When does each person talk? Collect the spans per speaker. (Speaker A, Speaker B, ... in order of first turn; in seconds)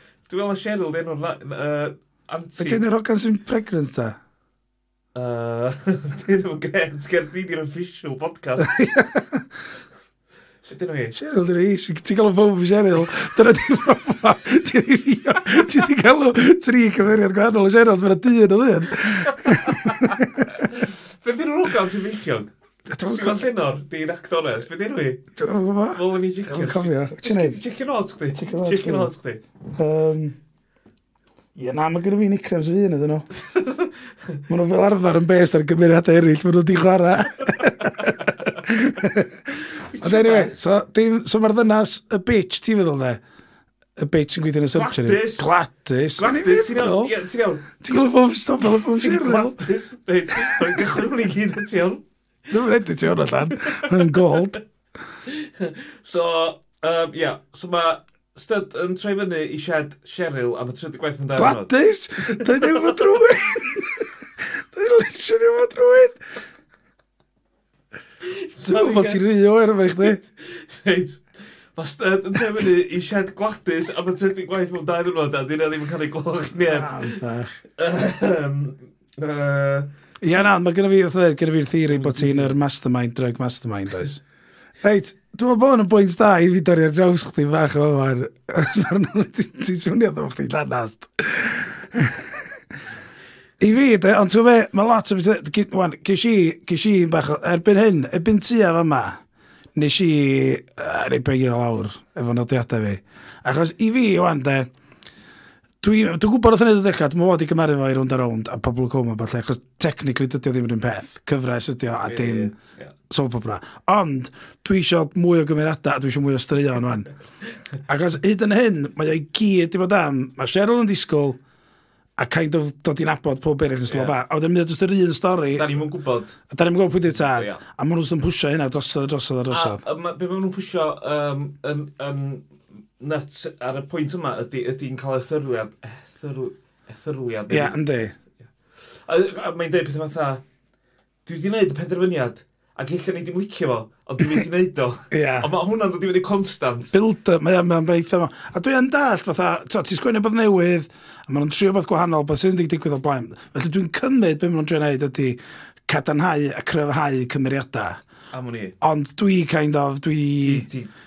Speaker A: 0.3-2.8, 5.1-9.0, 10.7-11.2, 19.3-22.5, 23.0-25.2, 25.9-29.4, 33.4-34.4, 37.6-38.6, 39.7-40.6, 44.7-45.5, 46.1-47.8, 48.6-52.0, 55.2-63.2, 68.2-69.2, 70.0-71.2, 71.7-77.2, 77.8-80.5, 81.9-82.6, 112.0-112.9, 123.9-124.2, 125.5-126.4, 127.0-127.6, 129.5-137.8, 139.1-140.4, 141.2-146.9, 158.3-158.8, 160.4-160.9
Speaker B: 2.6-4.2, 8.6-9.4, 11.1-20.5, 22.9-23.4, 25.3-27.6, 28.3-29.1, 29.8-30.4, 31.5-33.3, 34.5-39.4, 40.0-43.2, 44.0-47.1, 47.8-49.6, 50.4-50.8, 52.5-54.6, 61.4-66.2, 68.6-70.2, 76.6-77.5, 80.2-84.2, 84.8-92.4, 93.6-99.2, 99.7-104.7, 105.8-112.5, 113.1-117.1, 117.9-121.4, 122.2-125.7, 126.5-129.8, 137.5-138.1, 145.1-145.5, 146.9-158.0, 158.8-160.7